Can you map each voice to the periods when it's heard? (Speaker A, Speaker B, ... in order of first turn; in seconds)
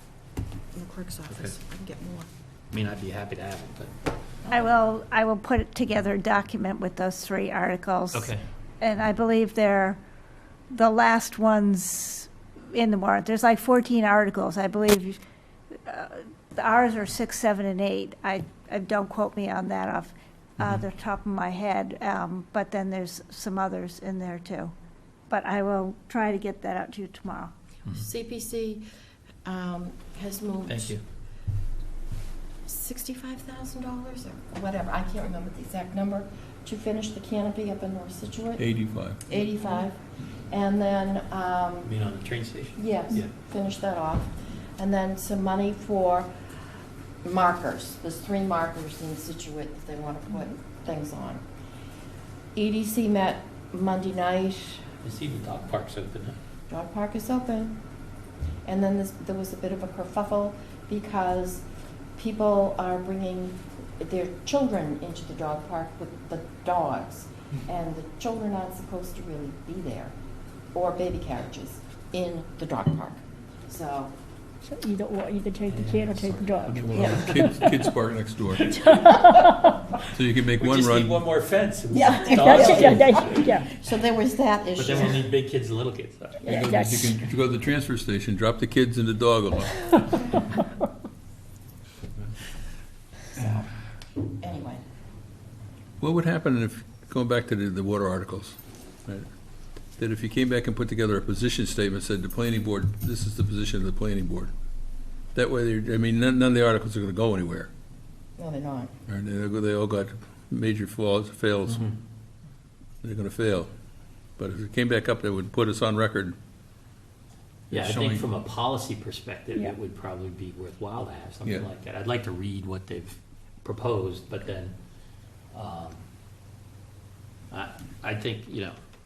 Speaker A: 0.7-2.3, 4.5-4.7, 27.9-28.8, 29.4-31.0, 32.6-41.9, 42.8-46.4, 47.2-51.4, 52.5-54.9, 56.7-57.8, 58.6-61.6, 62.1-70.1, 70.7-74.1, 76.9-77.3, 82.3-85.3, 86.4-86.9, 93.3-93.7, 94.4-94.8, 108.4-108.9
Speaker B: 1.3-1.5, 2.7-3.9, 8.1-8.4, 30.7-31.0, 41.8-43.3, 55.0-56.4, 75.7-77.1, 78.8-79.4, 80.6-83.6, 84.7-86.5, 117.7-124.7, 125.5-126.0, 127.5-128.7
Speaker C: 4.5-10.0, 10.7-15.2, 15.8-24.7, 25.3-27.5
Speaker D: 38.6-39.2, 76.7-78.7, 80.1-81.2, 86.4-89.9, 96.0-99.3, 100.0-104.5, 105.3-107.7, 109.1-111.9, 113.0-113.7, 114.4-116.4, 117.7-118.2
Speaker E: 74.7-77.9, 78.7-79.9, 81.9-83.7, 86.5-87.2